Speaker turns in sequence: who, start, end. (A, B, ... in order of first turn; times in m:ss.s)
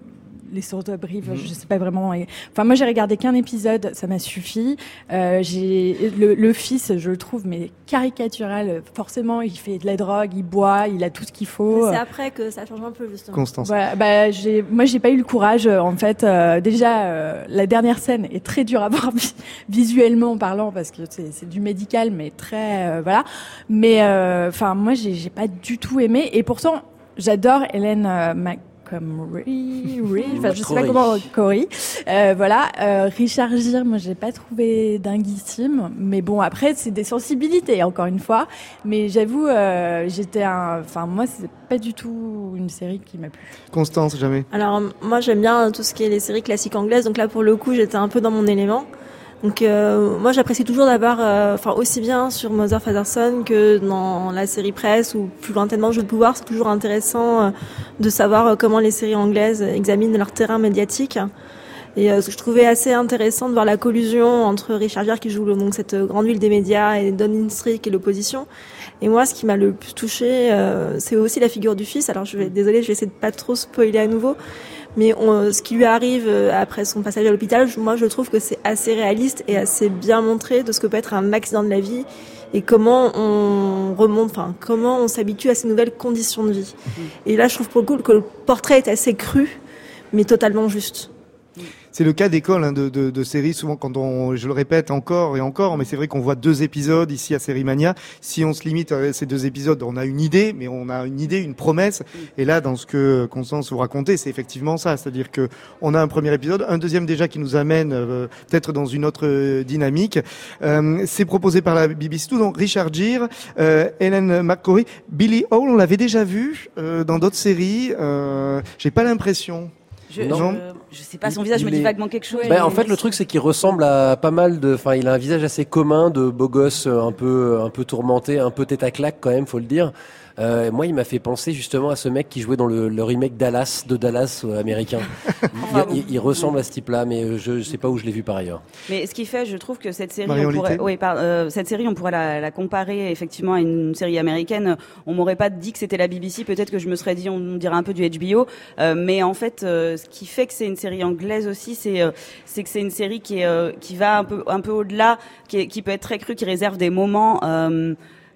0:00.5-0:12.0 A
0:11.7-0:13.5 B
0:13.3-0:13.7 C
0:13.6-0:43.5 A
0:30.2-0:31.3 D
0:43.7-0:44.5 C
0:44.5-0:48.9 B
0:49.4-1:01.3 B
1:02.0-1:08.5 B
1:09.0-1:14.4 B
1:14.9-1:29.6 B
1:30.1-1:31.1 B
1:31.9-1:59.7 C
2:00.1-2:02.9 E
2:00.2-2:00.5 D
2:00.3-2:00.6 C
2:01.2-2:18.6 D
2:02.3-2:02.9 A
2:15.6-2:16.6 E
2:18.9-2:38.0 E
2:20.2-2:20.8 C